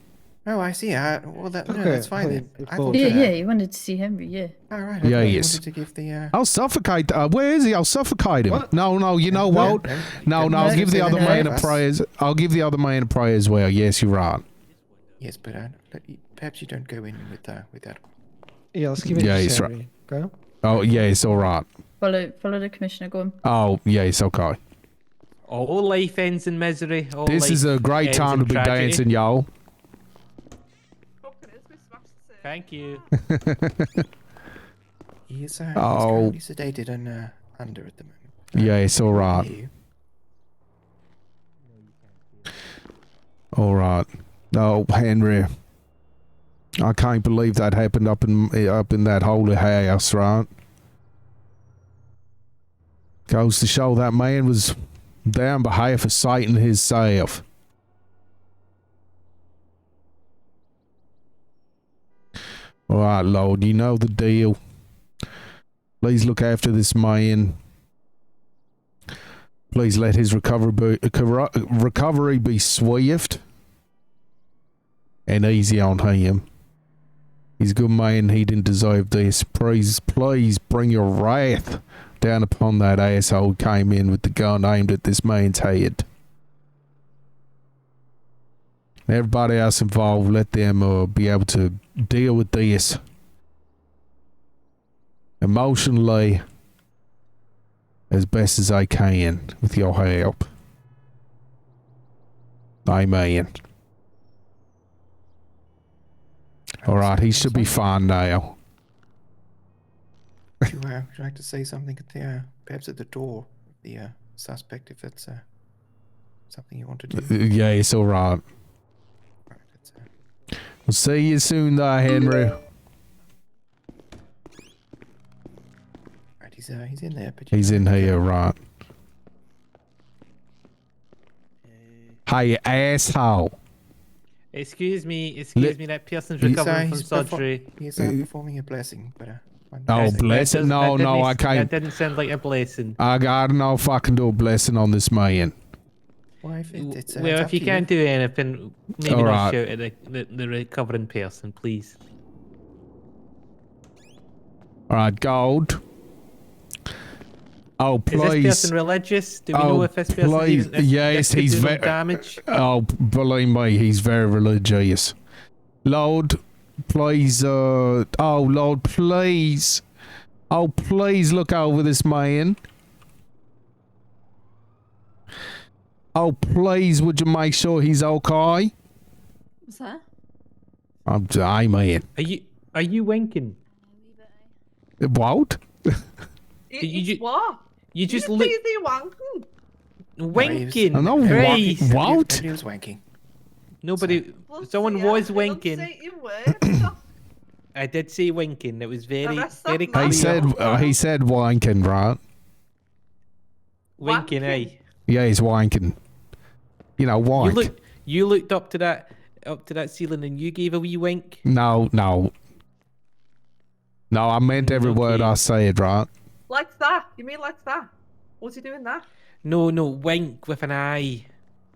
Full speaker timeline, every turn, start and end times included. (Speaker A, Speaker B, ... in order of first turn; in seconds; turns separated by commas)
Speaker A: 0.4-3.4, Speaker B: 1.6-3.2, Speaker C: 2.9-4.5, Speaker A: 4.7-6.3, Speaker D: 5.0-5.6, Speaker D: 6.3-14.4, Speaker A: 9.3-11.8, Speaker B: 9.5-9.8, Speaker C: 10.5-11.6, Speaker A: 15.2-18.0, Speaker B: 18.7-20.3, Speaker D: 19.0-19.7, Speaker D: 20.6-21.6, Speaker C: 22.0-23.4, Speaker D: 23.4-24.6, Speaker E: 25.5-29.0, Speaker D: 27.2-29.5, Speaker F: 31.2-33.1, Speaker E: 32.4-33.0, Speaker D: 33.1-34.0, Speaker A: 35.3-39.7, Speaker D: 35.8-36.4, Speaker D: 38.5-39.5, Speaker D: 43.5-45.5, Speaker D: 46.8-50.5, Speaker D: 53.3-54.7, Speaker D: 55.2-57.4, Speaker D: 62.9-64.6, Speaker D: 66.0-67.5, Speaker D: 69.7-73.4, Speaker D: 75.3-76.4, Speaker D: 77.6-86.0, Speaker D: 89.1-93.0, Speaker D: 95.4-96.4, Speaker D: 98.1-100.4, Speaker D: 102.8-103.6, Speaker A: 106.8-107.7, Speaker D: 106.8-108.5, Speaker A: 110.6-115.4, Speaker A: 116.5-117.4, Speaker D: 117.2-118.4, Speaker A: 119.5-120.1, Speaker D: 120.8-122.5, Speaker A: 126.4-128.2, Speaker D: 127.5-128.6, Speaker D: 132.3-133.6, Speaker E: 134.5-137.6, Speaker A: 136.4-140.3, Speaker D: 139.9-141.7, Speaker E: 139.9-143.0, Speaker D: 143.0-145.5, Speaker A: 146.4-147.9, Speaker E: 146.7-152.0, Speaker D: 149.0-149.6, Speaker D: 154.9-155.8, Speaker D: 157.8-158.7, Speaker E: 158.1-162.4, Speaker D: 159.5-165.1, Speaker D: 165.8-169.8, Speaker D: 170.5-172.6, Speaker D: 176.1-178.7, Speaker F: 179.7-180.0, Speaker D: 181.1-182.1, Speaker E: 182.2-183.6, Speaker D: 185.0-185.6, Speaker F: 186.7-189.5, Speaker E: 186.8-187.2, Speaker E: 187.9-188.6, Speaker E: 190.2-192.0, Speaker A: 190.3-193.0, Speaker D: 190.9-192.4, Speaker E: 193.8-195.9, Speaker F: 194.5-197.0, Speaker E: 197.7-200.5, Speaker F: 199.2-201.0, Speaker D: 199.9-202.2, Speaker E: 204.0-204.8, Speaker F: 204.0-204.7, Speaker D: 205.1-205.9, Speaker D: 207.0-207.7, Speaker E: 207.3-211.4, Speaker D: 211.4-212.3, Speaker D: 214.1-216.1, Speaker E: 214.5-215.3, Speaker F: 216.5-219.1, Speaker E: 219.4-221.2